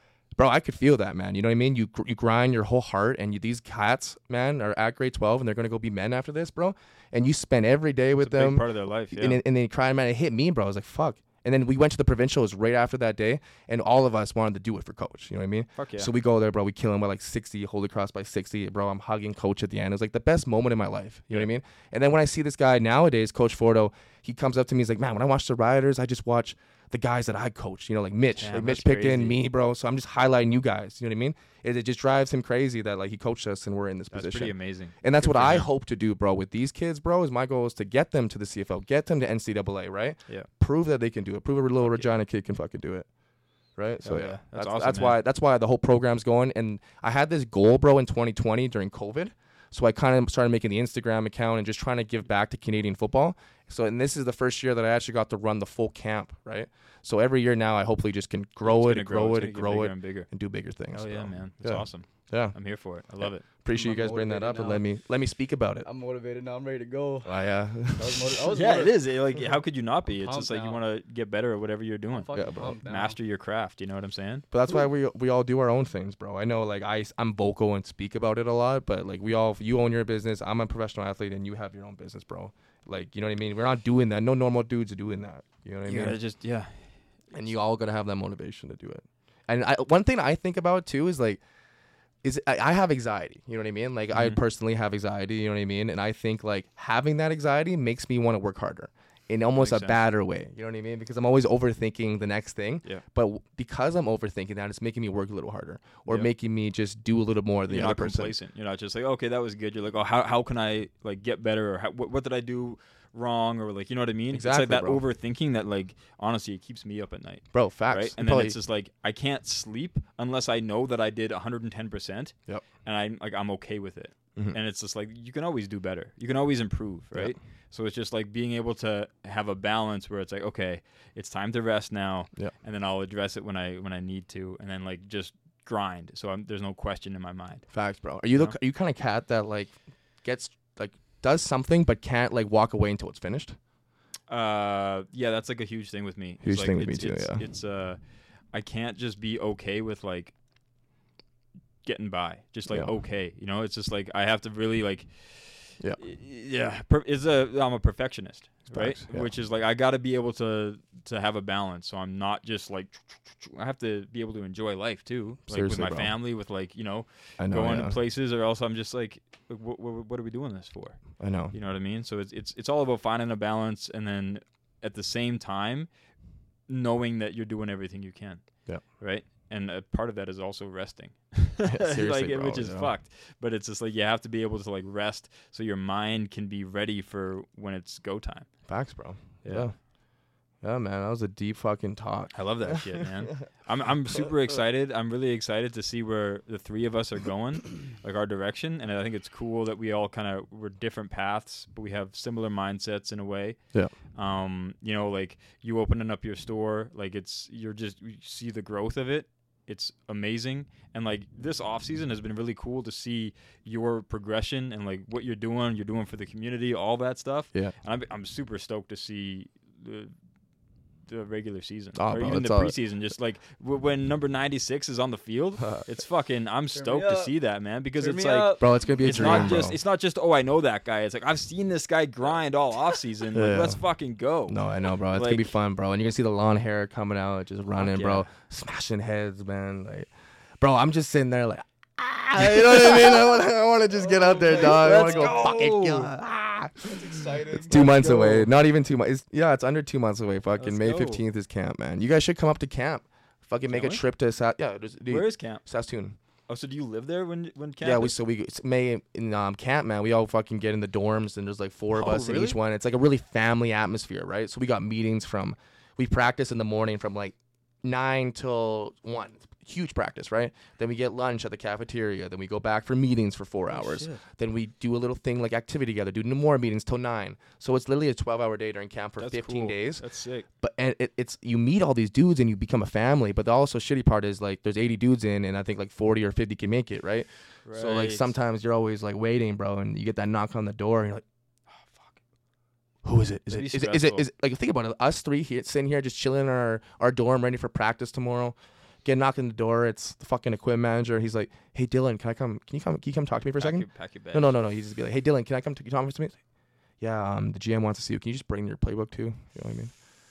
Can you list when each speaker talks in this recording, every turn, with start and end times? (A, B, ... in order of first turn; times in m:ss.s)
0:00.4-0:43.1 A
0:08.2-0:09.4 B
0:15.8-0:16.1 B
0:28.4-0:29.4 B
0:34.1-0:35.7 B
0:43.8-1:02.6 A
0:44.0-0:45.2 B
0:58.6-1:00.3 B
1:00.9-1:03.4 B
1:03.2-1:05.8 A
1:03.7-1:04.8 C
1:05.8-1:09.0 C
1:07.2-1:08.4 A
1:08.5-1:14.4 B
1:10.1-1:10.8 C
1:12.1-1:13.2 C
1:12.3-1:12.8 A
1:14.5-1:26.2 A
1:25.9-1:26.8 B
1:27.3-1:31.4 A
1:32.2-1:48.3 A
1:34.1-1:34.4 B
1:39.6-1:40.0 B
1:47.7-2:02.3 B
1:54.3-1:55.0 A
1:57.5-1:58.6 A
2:02.8-2:17.6 B
2:17.7-2:23.6 A
2:24.3-2:28.0 B
2:26.4-2:27.4 A
2:28.5-2:30.3 B
2:31.8-2:51.0 B
2:32.7-2:32.9 A
2:38.7-2:39.3 A
2:45.5-2:46.1 A
2:47.4-2:48.0 A
2:51.2-2:51.5 A
2:51.5-2:55.9 B
2:56.7-2:58.4 B
2:59.0-3:08.5 B
3:01.6-3:02.9 A
3:08.7-3:09.7 A
3:09.4-3:09.7 B
3:10.6-3:13.2 A
3:12.3-3:23.6 B
3:24.1-3:40.1 B
3:41.1-3:54.6 B
3:42.0-3:42.7 A
3:45.6-3:45.8 A
3:46.7-3:47.3 C
3:48.0-3:49.6 C
3:48.6-3:49.8 A
3:53.3-3:53.8 A
3:54.5-4:00.1 A
3:55.1-3:55.5 B
3:57.8-3:58.2 B
4:00.6-4:07.0 A
4:02.5-4:03.1 B
4:04.0-4:05.4 C
4:04.4-4:06.1 B
4:06.8-4:07.8 C
4:07.6-4:08.5 B
4:07.6-4:16.2 A
4:10.6-4:11.2 B
4:13.7-4:14.0 B
4:15.1-4:15.6 B
4:16.5-4:18.1 B
4:17.8-4:40.0 A
4:21.9-4:22.6 B
4:33.7-4:34.2 B
4:39.2-4:40.5 B
4:40.6-4:51.2 A
4:47.6-4:48.3 B
4:51.7-4:52.2 B
4:53.0-5:06.4 A
4:53.5-4:54.2 B
5:03.6-5:04.5 B
5:07.0-5:09.9 A